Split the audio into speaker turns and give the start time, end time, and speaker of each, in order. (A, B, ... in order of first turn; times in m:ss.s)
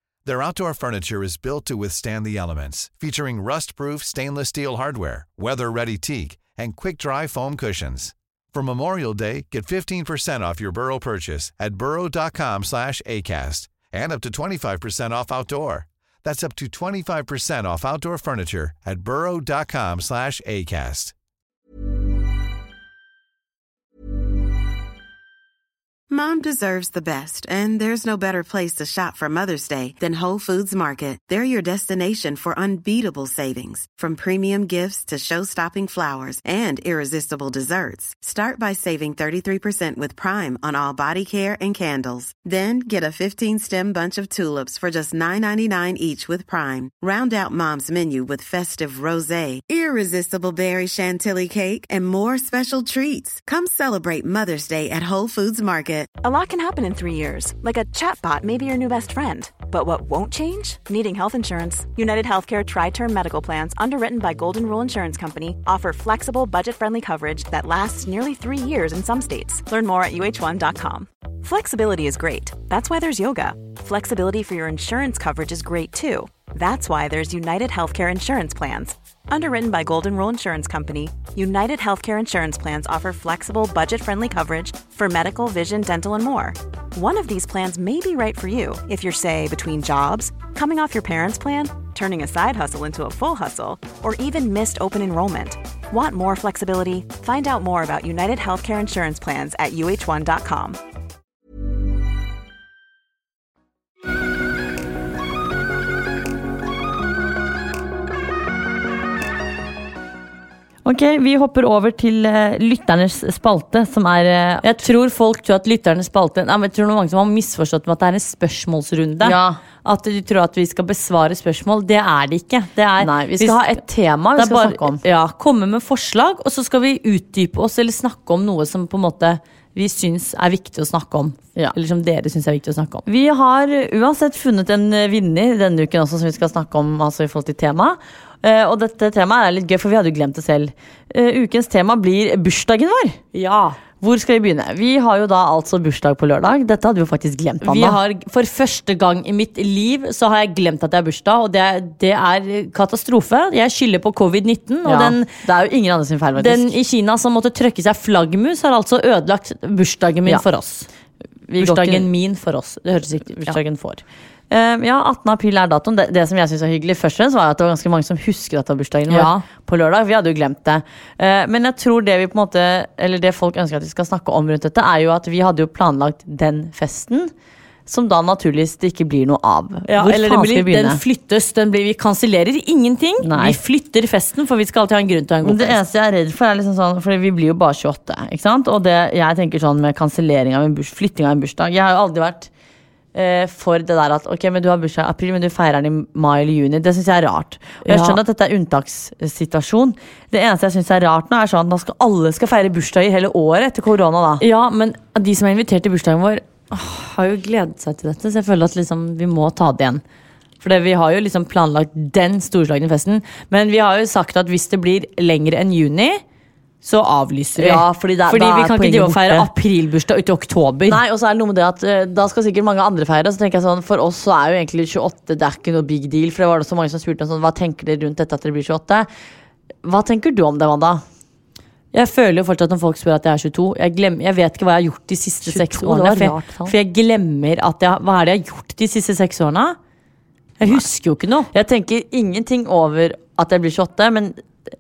0:00.2-0:21.1 A
0:26.1-0:56.1 B
0:56.2-1:40.8 C
1:50.8-1:54.7 D
1:54.6-2:03.8 E
1:59.2-1:59.6 D
2:03.0-2:05.0 D
2:04.4-2:13.0 E
2:13.0-2:23.2 D
2:23.3-2:23.8 E
2:24.0-2:28.0 D
2:27.6-2:35.3 E
2:34.8-2:36.7 D
2:36.4-2:40.9 E
2:41.5-2:42.1 D
2:41.6-2:43.6 E
2:43.3-2:57.3 D
2:49.1-2:49.4 E
2:57.9-3:01.0 D
2:59.9-3:05.8 E
3:03.2-3:03.6 D
3:05.4-3:12.5 D
3:13.1-3:24.4 D
3:17.8-3:18.2 E
3:24.4-3:30.0 E
3:30.6-3:36.2 E
3:36.8-3:41.0 E
3:37.6-3:39.5 D
3:40.9-3:49.1 D
3:49.8-3:51.0 D
3:51.9-3:59.8 E
3:55.4-3:56.7 D
4:00.6-4:01.5 E
4:01.5-4:04.4 D